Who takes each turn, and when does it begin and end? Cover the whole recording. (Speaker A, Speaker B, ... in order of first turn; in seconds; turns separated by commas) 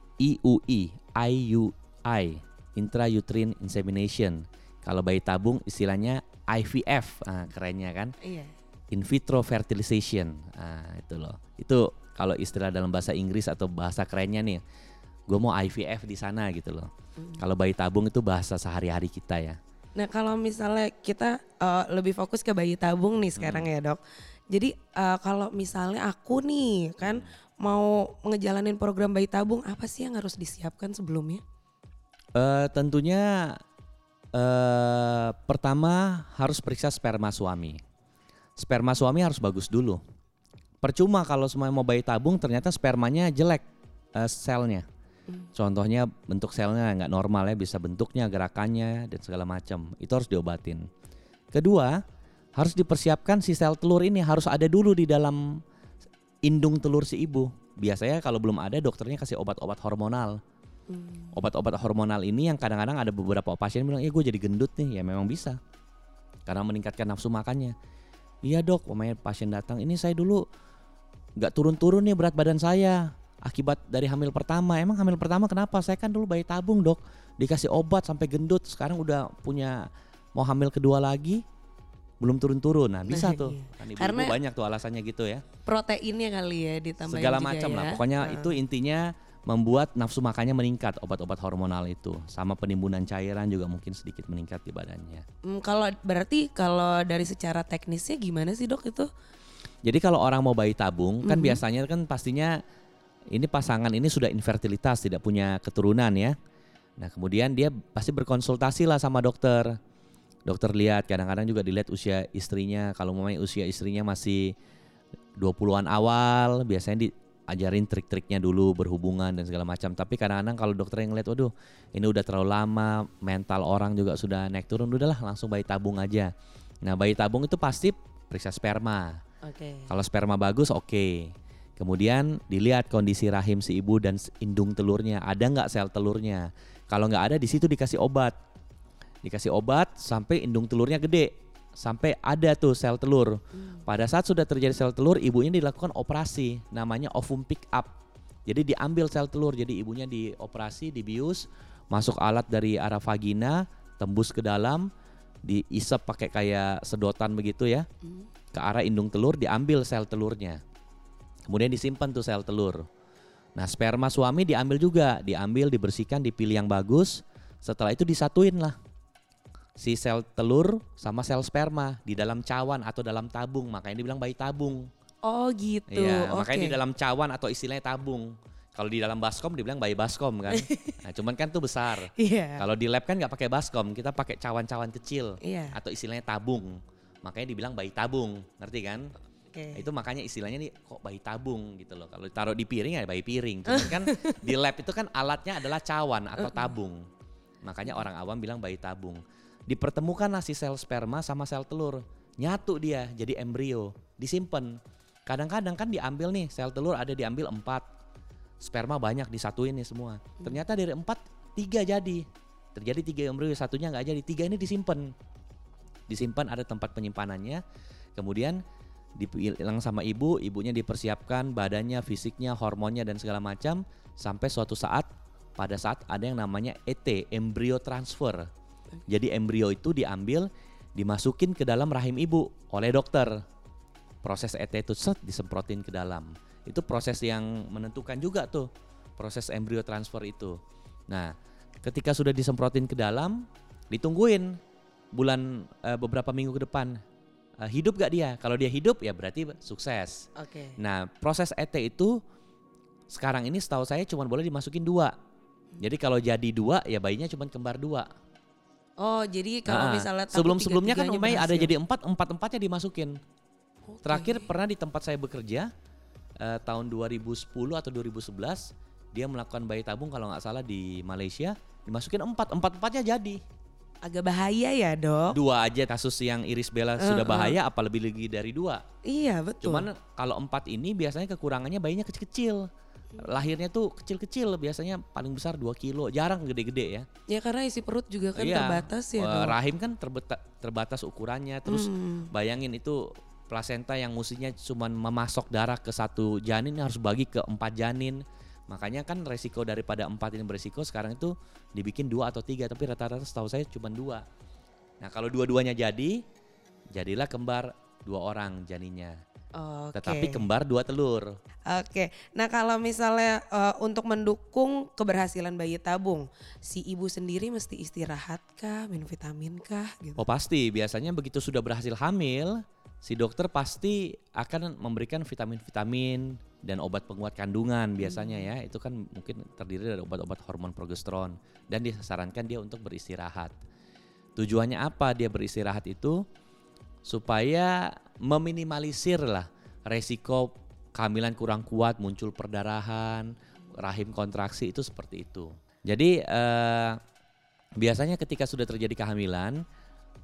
Speaker A: 0.2-8.1, Speaker B: 8.2-8.5, Speaker A: 8.9-14.6, Speaker A: 15.3-16.9, Speaker A: 17.4-19.6, Speaker B: 20.0-24.0, Speaker A: 23.4-23.7, Speaker B: 24.5-31.4, Speaker A: 27.0-27.3, Speaker A: 32.4-33.6, Speaker A: 34.3-37.8, Speaker A: 38.6-40.0, Speaker A: 40.8-43.6, Speaker A: 44.2-44.8, Speaker A: 45.5-50.8, Speaker A: 51.5-52.0, Speaker A: 52.6-55.6, Speaker A: 56.5-60.4, Speaker B: 60.9-61.3, Speaker A: 61.3-65.6, Speaker A: 66.5-67.8, Speaker A: 68.5-70.4, Speaker A: 71.4-79.8, Speaker A: 80.3-81.4, Speaker A: 82.2-85.4, Speaker B: 83.1-84.4, Speaker B: 85.7-88.5, Speaker A: 87.1-95.2, Speaker B: 95.5-99.1, Speaker A: 99.8-102.6, Speaker B: 101.2-101.6, Speaker A: 103.3-106.3, Speaker A: 107.0-109.7, Speaker A: 110.5-114.5, Speaker A: 115.4-126.3, Speaker A: 126.8-129.2, Speaker B: 129.5-129.9, Speaker A: 129.9-138.3, Speaker A: 139.2-147.9, Speaker A: 148.5-154.8, Speaker A: 155.4-157.8, Speaker A: 158.5-160.6, Speaker A: 161.5-162.8, Speaker A: 163.6-168.8, Speaker A: 169.8-174.8, Speaker B: 175.2-176.8, Speaker A: 175.9-189.1, Speaker B: 180.5-181.0, Speaker B: 182.2-182.7, Speaker B: 185.4-185.8, Speaker B: 189.5-189.8, Speaker A: 189.7-197.0, Speaker B: 193.7-194.5, Speaker A: 197.6-204.7, Speaker A: 205.3-207.8, Speaker A: 208.6-212.2, Speaker A: 212.8-215.1, Speaker A: 216.1-217.6, Speaker A: 218.2-218.6, Speaker A: 219.2-228.5, Speaker A: 229.1-233.4, Speaker A: 234.2-240.6, Speaker A: 241.8-244.6, Speaker A: 245.2-246.9, Speaker A: 247.6-250.2, Speaker B: 250.4-250.8, Speaker A: 250.8-252.2, Speaker A: 253.1-255.1, Speaker A: 255.8-258.1, Speaker B: 259.0-261.7, Speaker A: 259.7-263.1, Speaker B: 263.9-264.5, Speaker A: 264.0-265.7, Speaker A: 266.4-273.4, Speaker B: 274.0-275.4, Speaker A: 275.3-278.8, Speaker B: 277.0-277.6, Speaker B: 279.1-279.9, Speaker A: 279.6-282.7, Speaker A: 283.2-287.1, Speaker B: 287.3-289.6, Speaker A: 288.4-304.2, Speaker B: 291.6-292.3, Speaker A: 305.0-306.2, Speaker A: 306.9-309.2, Speaker B: 309.6-310.5, Speaker A: 309.9-311.4, Speaker B: 311.7-320.3, Speaker A: 320.2-333.6, Speaker B: 328.1-328.4, Speaker A: 334.4-336.2, Speaker A: 337.1-347.0, Speaker A: 347.8-349.6